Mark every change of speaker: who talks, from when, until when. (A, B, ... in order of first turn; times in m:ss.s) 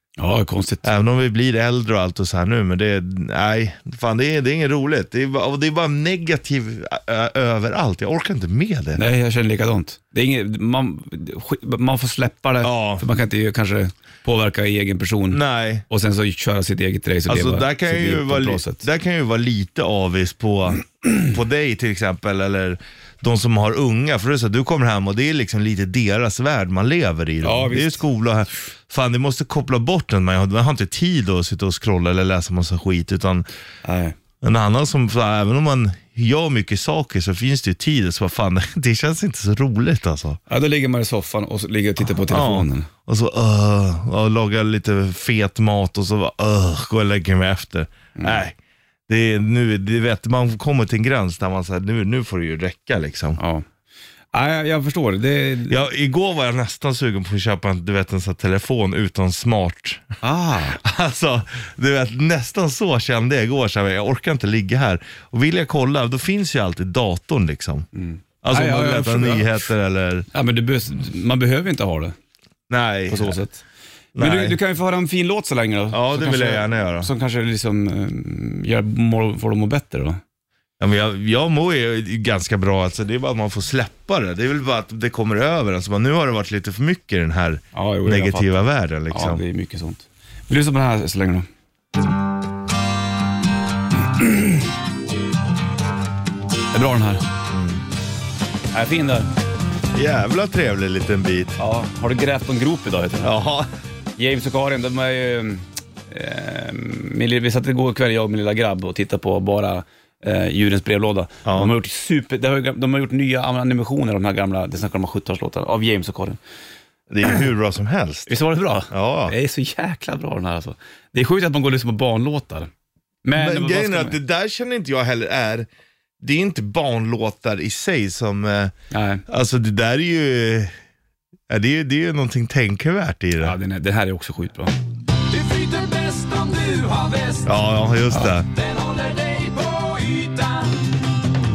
0:00.2-0:00.9 A
0:00.8-0:09.0 B
0:09.0-0:18.8 A
0:12.6-0:13.0 B
0:15.3-0:15.8 B
0:17.3-0:33.4 B
0:27.4-0:28.0 A
0:33.8-0:34.1 A
0:34.4-0:40.4 B
0:40.5-0:42.9 A
0:42.1-0:48.6 B
0:48.2-0:48.4 A
0:49.1-0:53.4 B
0:53.4-0:53.6 A
0:54.3-0:55.8 A
0:55.7-1:00.1 B
1:00.2-1:00.8 A
1:00.7-1:07.9 B
1:07.9-1:09.5 A
1:08.4-1:10.3 B
1:10.3-1:12.1 A
1:12.7-1:13.4 B
1:13.1-1:13.6 A
1:14.1-1:14.6 B
1:14.2-1:20.2 A
1:15.9-1:17.1 B
1:20.8-1:29.4 B
1:27.7-1:28.5 A
1:29.1-1:31.5 A
1:34.1-1:34.6 A
1:36.7-1:37.2 A
1:37.5-1:37.8 B
1:38.7-1:39.3 A
1:39.9-1:41.6 B
1:41.6-1:43.4 A
1:43.2-1:43.7 B
1:44.2-1:56.4 A
1:51.4-1:51.7 B
1:57.1-1:58.3 B
1:58.3-2:02.7 A
1:58.9-1:59.3 B
2:03.2-2:04.2 A
2:03.3-2:05.7 B
2:06.2-2:08.7 B
2:08.9-2:09.2 A
2:09.3-2:10.7 B
2:11.5-2:13.6 B
2:13.4-2:14.7 A
2:15.3-2:17.6 C
2:17.4-2:18.5 B
2:18.5-2:20.9 C